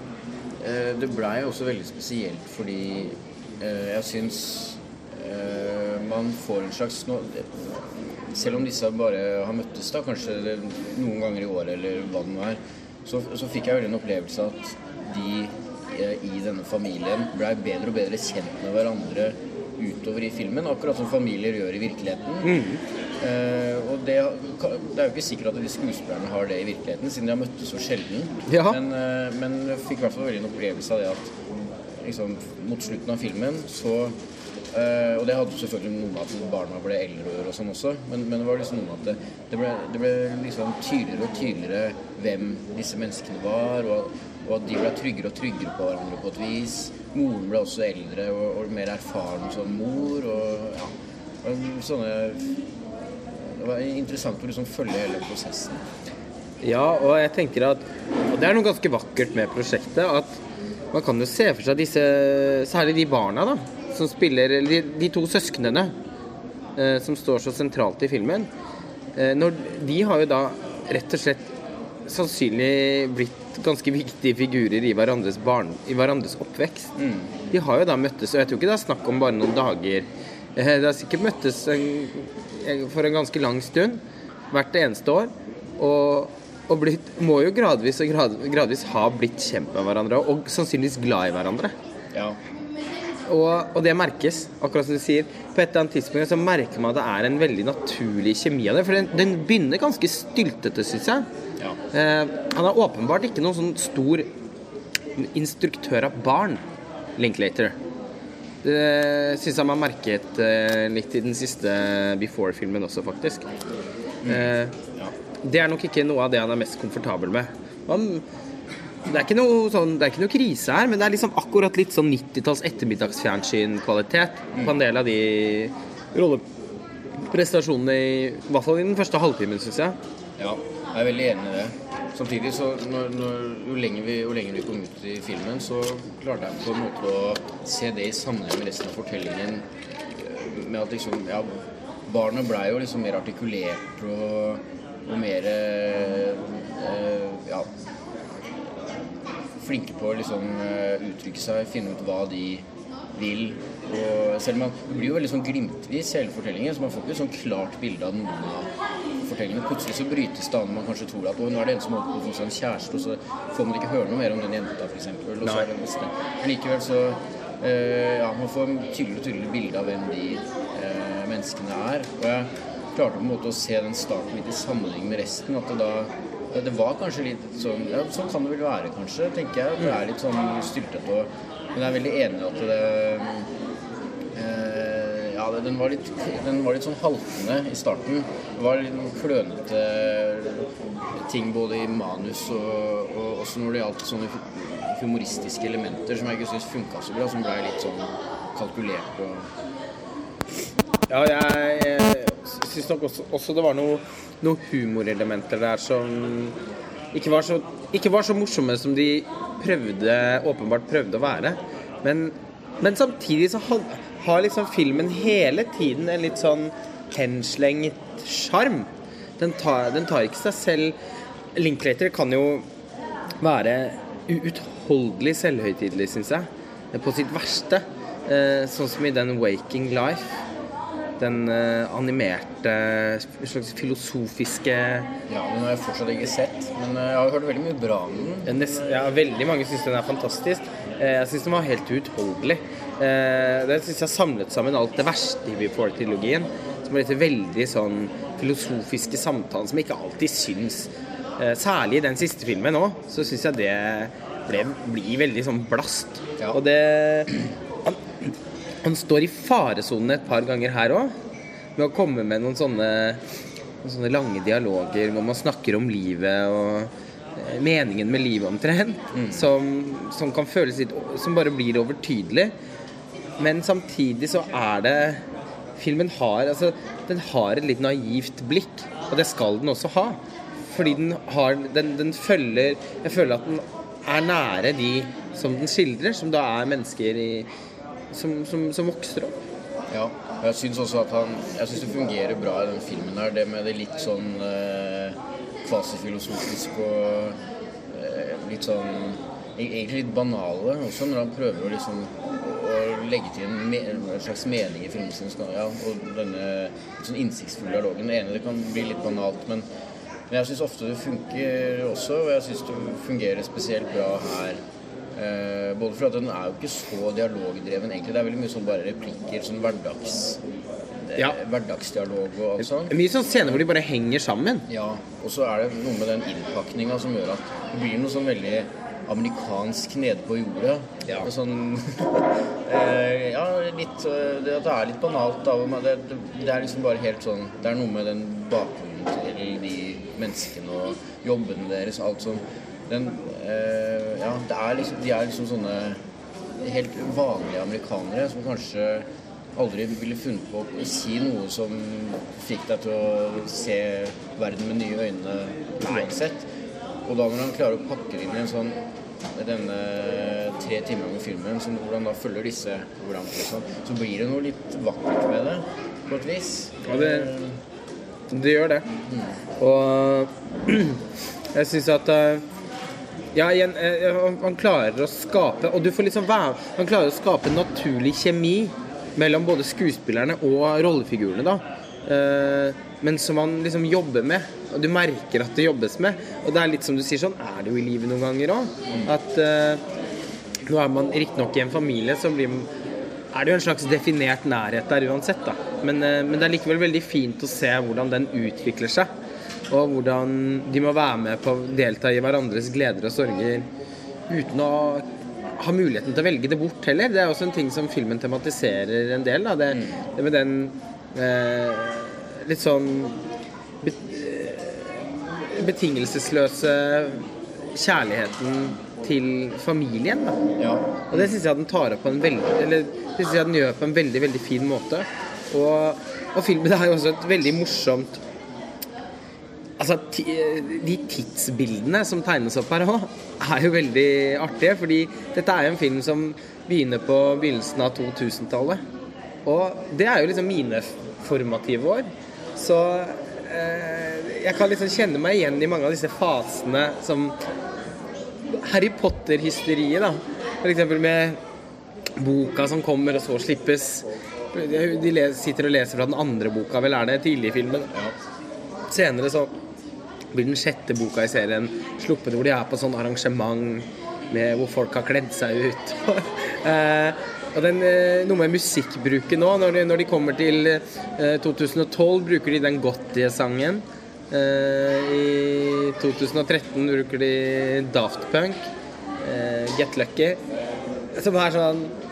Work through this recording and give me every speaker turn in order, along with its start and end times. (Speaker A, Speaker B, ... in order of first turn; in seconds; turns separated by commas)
Speaker A: 0.6-22.5, Speaker B: 22.4-22.8, Speaker A: 23.2-31.3, Speaker B: 28.5-28.8, Speaker A: 32.0-34.1, Speaker A: 34.7-50.9, Speaker A: 51.4-52.6, Speaker A: 53.3-55.8, Speaker B: 56.6-60.4, Speaker B: 60.9-65.9, Speaker B: 66.8-68.5, Speaker B: 69.2-71.5, Speaker B: 72.0-76.9, Speaker A: 77.0-77.3, Speaker B: 77.5-84.0, Speaker B: 84.5-91.7, Speaker A: 92.1-92.4, Speaker B: 93.3-101.2, Speaker B: 101.9-104.3, Speaker B: 105.2-106.6, Speaker B: 107.2-107.7, Speaker B: 108.6-113.5, Speaker A: 114.2-115.1, Speaker B: 114.2-114.8, Speaker B: 115.4-118.2, Speaker B: 119.0-126.4, Speaker B: 127.2-130.0, Speaker A: 130.4-147.7, Speaker A: 149.6-183.5, Speaker A: 184.3-199.5, Speaker B: 201.1-206.6, Speaker B: 207.1-220.9, Speaker B: 221.5-222.7, Speaker B: 223.4-230.3, Speaker B: 231.2-235.1, Speaker A: 235.3-239.0, Speaker B: 238.4-257.3, Speaker B: 258.8-261.1, Speaker B: 261.8-263.2, Speaker B: 263.8-272.5, Speaker A: 269.1-269.5, Speaker B: 273.4-275.2, Speaker B: 275.8-287.5, Speaker B: 288.1-289.4, Speaker A: 289.9-297.4, Speaker A: 297.9-309.6, Speaker A: 310.3-314.6, Speaker A: 315.1-320.4, Speaker A: 321.0-323.6, Speaker B: 322.6-324.6, Speaker A: 324.7-346.0, Speaker A: 346.6-356.5, Speaker A: 357.0-358.8, Speaker A: 359.3-367.6, Speaker B: 366.9-367.3, Speaker B: 368.3-368.9, Speaker A: 369.1-369.4, Speaker B: 369.6-371.0, Speaker B: 371.5-372.4, Speaker B: 373.3-389.8, Speaker B: 390.6-392.7, Speaker B: 393.3-399.1, Speaker B: 399.7-403.6, Speaker B: 404.3-405.0, Speaker B: 405.6-413.2, Speaker B: 413.8-420.4, Speaker A: 420.6-421.4, Speaker B: 421.1-428.2, Speaker B: 429.8-438.8, Speaker B: 439.4-447.4, Speaker B: 448.5-451.4, Speaker B: 452.2-457.9, Speaker B: 458.9-459.5, Speaker B: 460.3-478.6, Speaker B: 479.2-480.4, Speaker B: 481.1-481.9